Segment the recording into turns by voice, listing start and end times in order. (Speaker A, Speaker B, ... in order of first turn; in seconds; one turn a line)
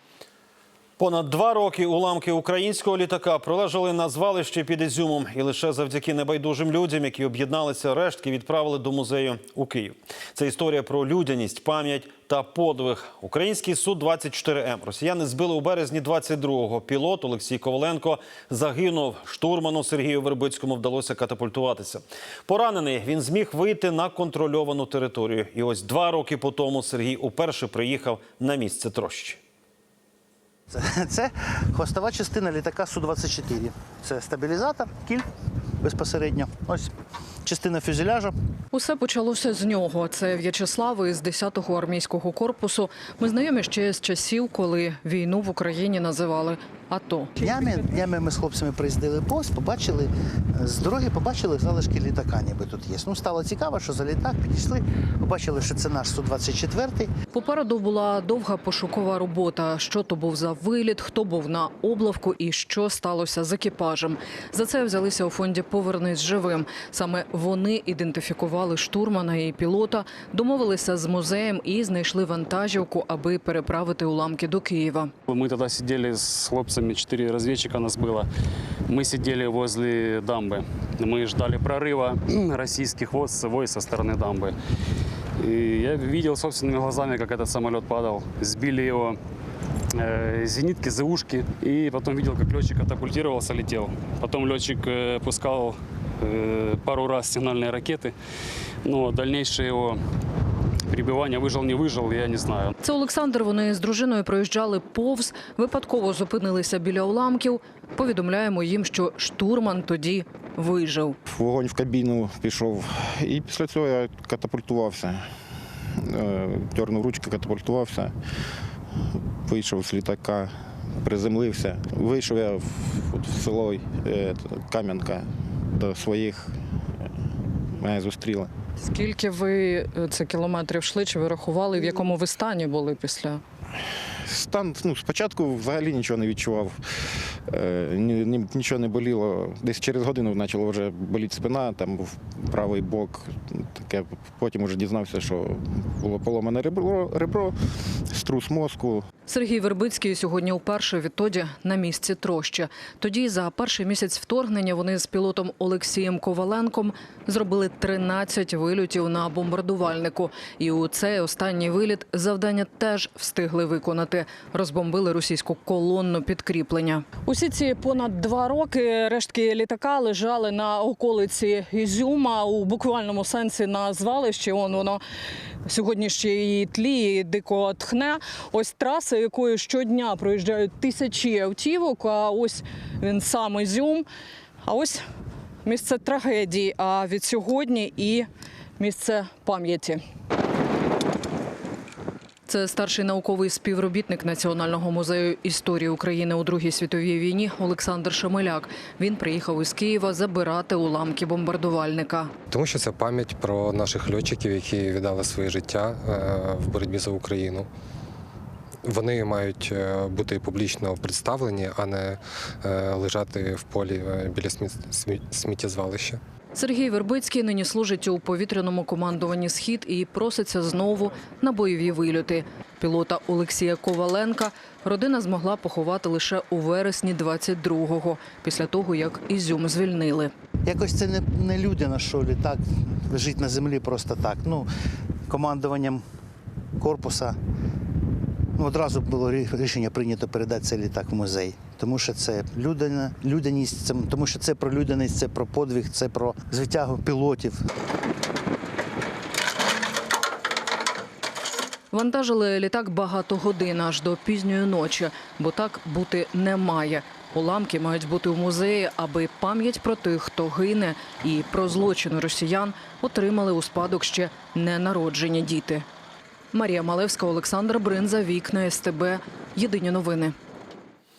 Speaker A: 1.0-29.4
Speaker B: 30.7-35.2
Speaker B: 35.8-36.9
Speaker B: 37.4-38.3
Speaker C: 38.7-47.3
Speaker B: 47.4-57.1
Speaker C: 57.3-75.1
Speaker D: 75.3-78.3
Speaker D: 78.9-84.5
Speaker D: 85.4-89.2
Speaker D: 90.0-98.1
Speaker D: 98.8-100.0
Speaker D: 100.9-102.7
Speaker C: 102.8-111.2
Speaker E: 111.2-115.3
Speaker E: 116.0-118.1
Speaker E: 119.5-126.5
Speaker E: 127.8-128.5
Speaker C: 128.8-133.4
Speaker E: 134.2-136.8
Speaker E: 137.5-147.6
Speaker E: 148.1-149.1
Speaker C: 149.3-175.0
Speaker C: 175.7-184.1
Speaker C: 184.6-185.0
Speaker C: 185.6-188.3
Speaker C: 188.8-190.0
Speaker C: 192.5-202.3
Speaker F: 202.5-207.7
Speaker F: 208.8-216.2
Speaker C: 216.5-230.3
Speaker B: 230.7-234.7
Speaker B: 235.3-236.0
Speaker B: 236.8-237.4
Speaker B: 238.6-247.6
Speaker C: 251.9-265.9
Speaker C: 266.5-270.3